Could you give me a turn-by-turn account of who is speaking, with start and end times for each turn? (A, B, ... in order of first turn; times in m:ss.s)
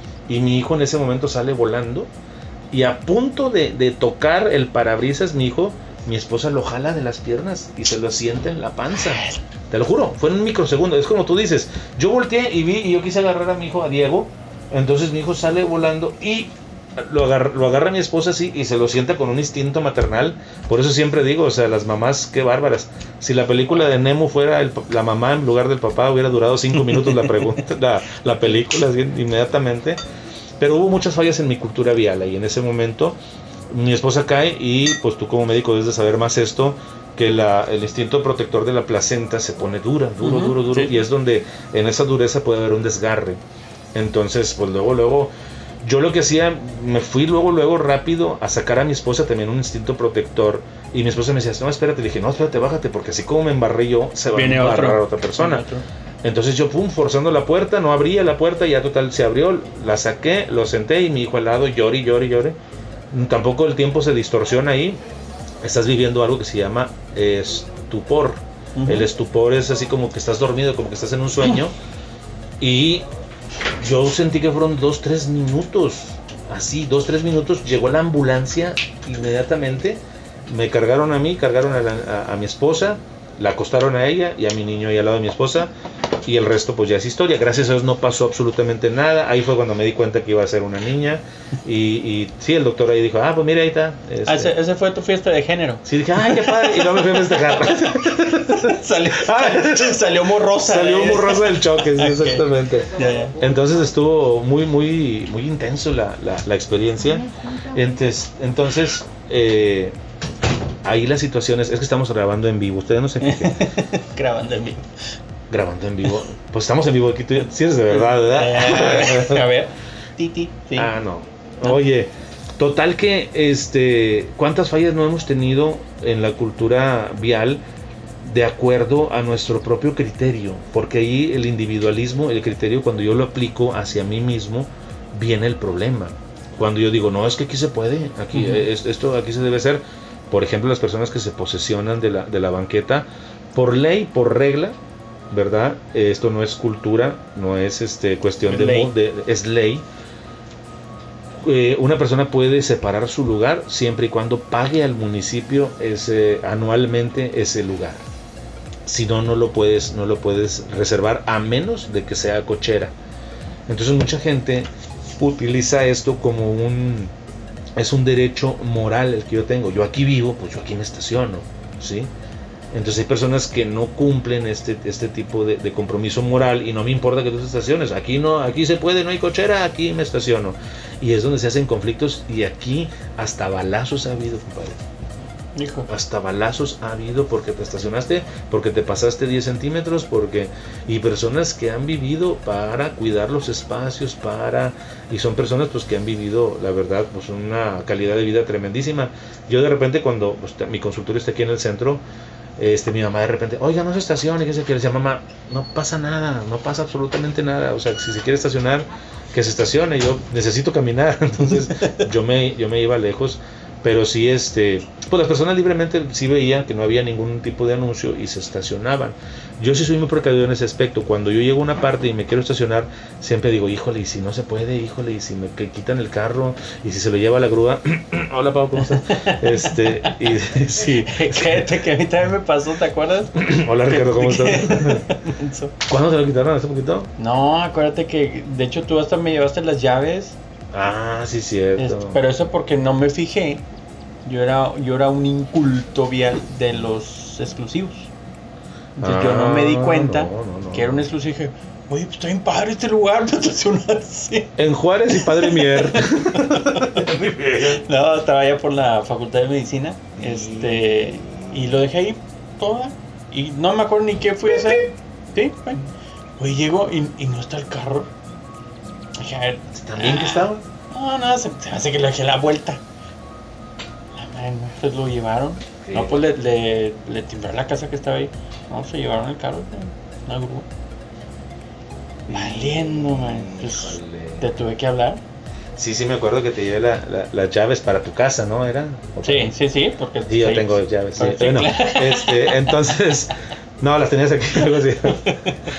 0:00.3-0:02.1 A
0:02.7-0:30.0 A
0:09.0-0:09.4 B
0:30.6-0:33.2 A
0:33.7-0:43.4 A
0:40.2-0:41.0 B
0:43.9-0:55.6 A
0:54.3-0:55.8 B
0:56.2-1:02.6 A
1:03.1-1:05.0 A
1:05.6-1:11.7 A
1:08.8-1:09.1 B
1:12.6-1:13.1 A
1:13.8-1:25.7 A
1:26.2-1:34.6 A
1:34.2-1:43.4 B
1:35.8-1:50.0 A
1:50.8-1:53.6 A
1:53.2-1:54.9 B
1:55.5-1:59.4 A
1:57.9-2:00.9 B
2:00.8-2:07.6 A
2:08.2-2:24.8 A
2:18.3-2:18.7 B
2:25.3-2:29.8 A
2:28.5-2:28.9 B
2:31.4-2:38.0 A
2:38.9-2:42.9 A
2:43.7-2:47.1 A
2:47.8-2:52.1 A
2:52.7-3:04.8 A
3:05.6-3:05.9 B
3:05.9-3:22.0 A
3:22.6-3:51.7 A
3:48.8-3:55.8 B
3:53.4-3:55.1 A
3:55.9-3:57.1 A
3:57.2-4:00.4 B
4:00.7-4:02.2 A
4:01.8-4:03.6 B
4:04.2-4:08.1 B
4:09.0-4:11.1 A
4:09.0-4:14.6 B
4:14.6-4:17.8 A
4:15.2-4:17.1 B
4:17.7-4:28.1 B
4:20.2-4:21.4 A
4:29.2-4:32.8 B
4:29.7-4:30.7 A
4:34.2-4:40.7 B
4:35.8-4:36.2 A
4:42.3-4:44.5 A
4:42.3-4:45.2 B
4:45.8-4:49.5 A
4:49.2-4:52.6 B
4:50.3-4:55.3 A
4:55.1-4:55.6 B